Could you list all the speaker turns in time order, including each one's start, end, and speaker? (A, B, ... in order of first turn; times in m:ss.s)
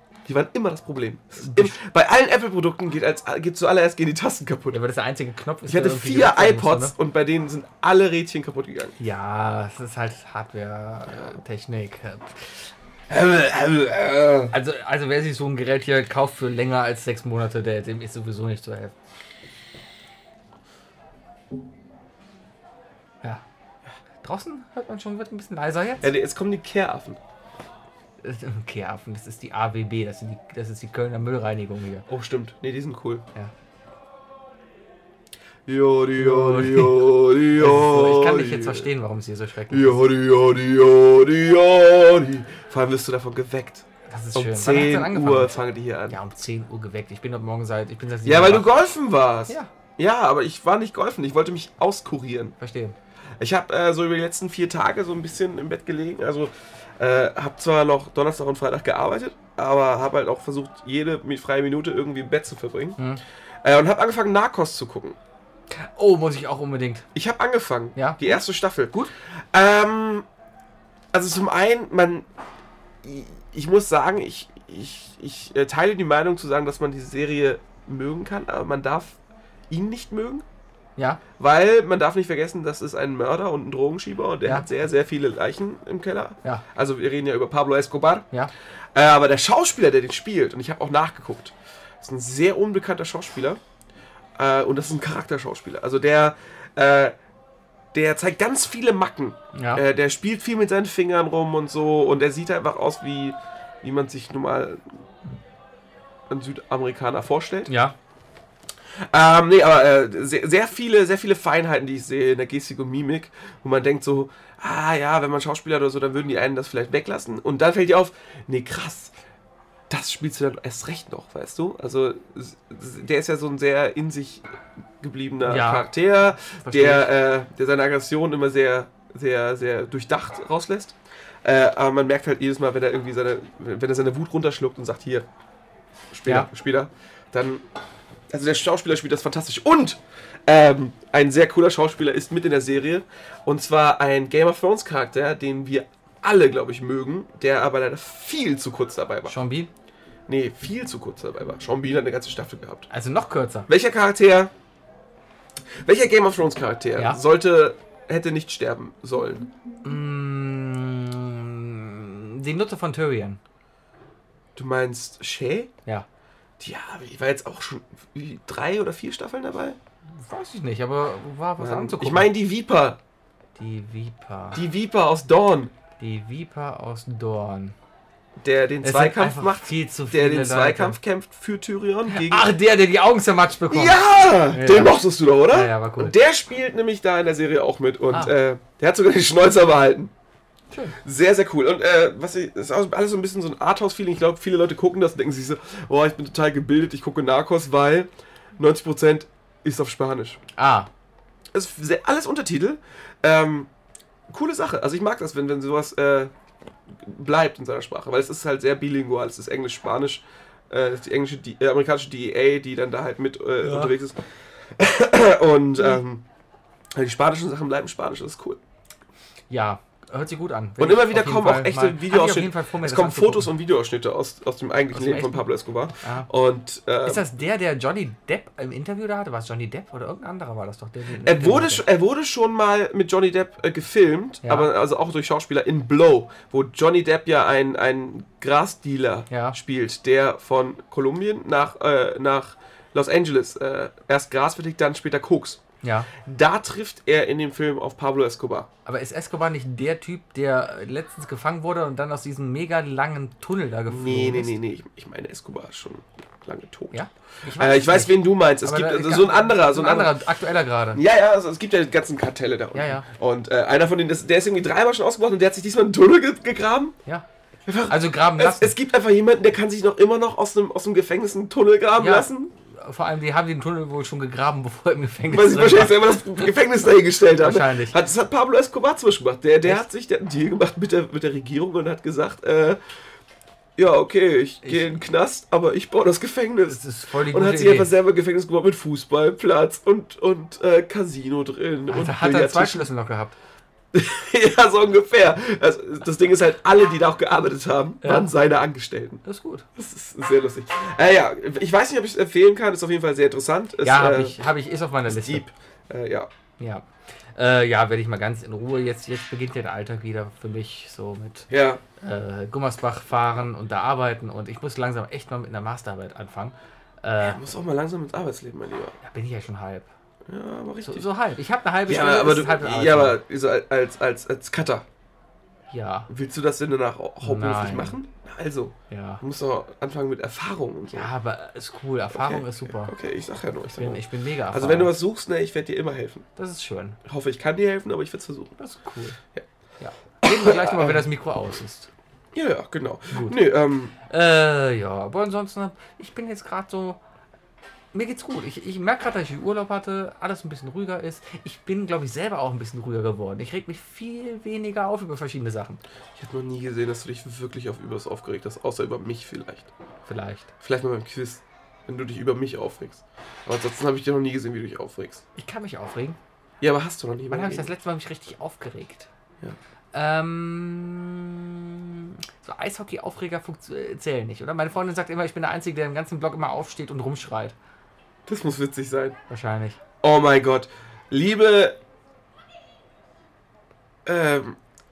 0:00.3-0:04.8 A
0:01.4-0:01.8 B
0:04.7-0:06.9 B
0:05.7-0:09.0 A
0:09.0-0:12.7 B
0:13.1-0:14.5 A
0:14.5-0:18.9 B
0:24.2-0:26.1 B
0:26.0-0:27.2 A
0:28.2-0:32.1 B
0:32.1-0:33.2 A
0:35.7-0:38.9 A
0:36.2-0:40.0 B
0:39.7-0:46.2 A
0:44.1-0:48.7 B
0:48.2-0:52.6 A
0:52.6-0:53.0 B
0:53.4-1:03.0 A
1:03.6-1:05.2 A
1:06.0-1:07.1 B
1:07.2-1:09.0 A
1:08.0-1:08.4 B
1:09.5-1:10.3 A
1:11.1-1:12.3 A
1:13.0-1:19.2 A
1:19.7-1:20.4 A
1:21.4-1:28.3 A
1:29.0-1:33.6 A
1:34.4-1:37.2 A
1:37.9-1:44.9 A
1:39.5-1:39.8 B
1:46.3-1:47.7 A
1:47.7-1:48.0 B
1:49.1-1:59.1 A
1:59.9-2:04.4 A
2:05.0-2:15.3 A
2:05.5-2:05.9 B
2:06.5-2:07.1 B
2:16.1-2:17.6 A
2:18.3-2:29.4 A
2:29.3-2:29.7 B
2:30.3-2:32.9 A
2:32.9-2:33.7 B
2:33.7-2:34.5 A
2:35.8-2:39.5 A
2:39.8-2:43.4 B
2:44.6-2:45.7 A
2:46.6-2:49.8 A
2:50.2-2:52.3 B
2:51.6-2:53.0 A
2:53.6-2:54.6 B
2:54.5-2:55.7 A
2:56.0-2:57.8 B
2:58.4-3:02.5 A
2:58.8-3:01.0 B
3:02.1-3:06.2 B
3:03.7-3:10.1 A
3:10.7-3:11.0 B
3:11.0-3:20.4 A
3:20.6-3:20.9 B
3:21.5-3:23.7 A
3:24.3-3:26.3 A
3:26.9-3:36.2 A
3:33.6-3:33.9 B
3:37.0-3:38.6 A
3:39.5-3:43.5 B
3:40.8-3:47.3 A
3:44.9-3:45.4 B
3:46.0-3:46.3 B
3:47.0-3:51.8 B
3:51.2-4:05.6 A
3:54.4-3:54.7 B
3:59.3-3:59.6 B
4:05.8-4:06.1 B
4:06.1-4:08.7 A
4:08.9-4:14.5 B
4:13.9-4:20.2 A
4:16.9-4:21.0 B
4:21.0-4:27.0 A
4:22.7-4:23.1 B
4:27.7-4:32.5 A
4:27.9-4:28.7 B
4:32.0-4:36.5 B
4:35.3-4:42.8 A
4:37.4-4:38.0 B
4:43.8-4:52.9 A
4:44.6-4:44.9 B
4:46.7-4:47.9 B
4:51.9-4:53.4 B
4:53.9-4:59.2 A
4:58.0-4:58.3 B
4:59.2-4:59.7 B
4:59.8-5:04.4 A
5:03.8-5:05.4 B
5:05.1-5:06.3 A
5:06.6-5:17.4 B
5:11.5-5:11.8 A
5:17.2-5:19.0 A
5:19.0-5:19.9 B
5:20.3-5:21.1 A
5:20.8-5:23.2 B
5:21.9-5:24.9 A
5:25.7-5:26.1 B
5:26.1-5:31.1 A
5:27.2-5:28.0 B
5:28.9-5:29.2 B
5:30.9-5:32.9 B
5:32.1-5:36.3 A
5:33.7-5:34.9 B
5:36.4-5:37.0 B
5:37.0-5:38.5 A
5:38.6-5:39.2 B
5:39.8-5:41.9 B
5:40.2-5:41.1 A
5:42.3-5:43.9 A
5:43.1-5:43.4 B
5:44.0-5:47.0 B
5:47.9-5:55.8 B
5:56.2-5:59.7 A
6:00.1-6:00.5 B
6:00.6-6:05.2 A
6:05.4-6:06.2 B
6:06.6-6:07.7 A
6:07.3-6:09.1 B
6:09.9-6:17.6 B
6:18.3-6:19.2 A
6:19.3-6:19.8 B
6:20.0-6:21.8 A
6:24.0-6:24.6 A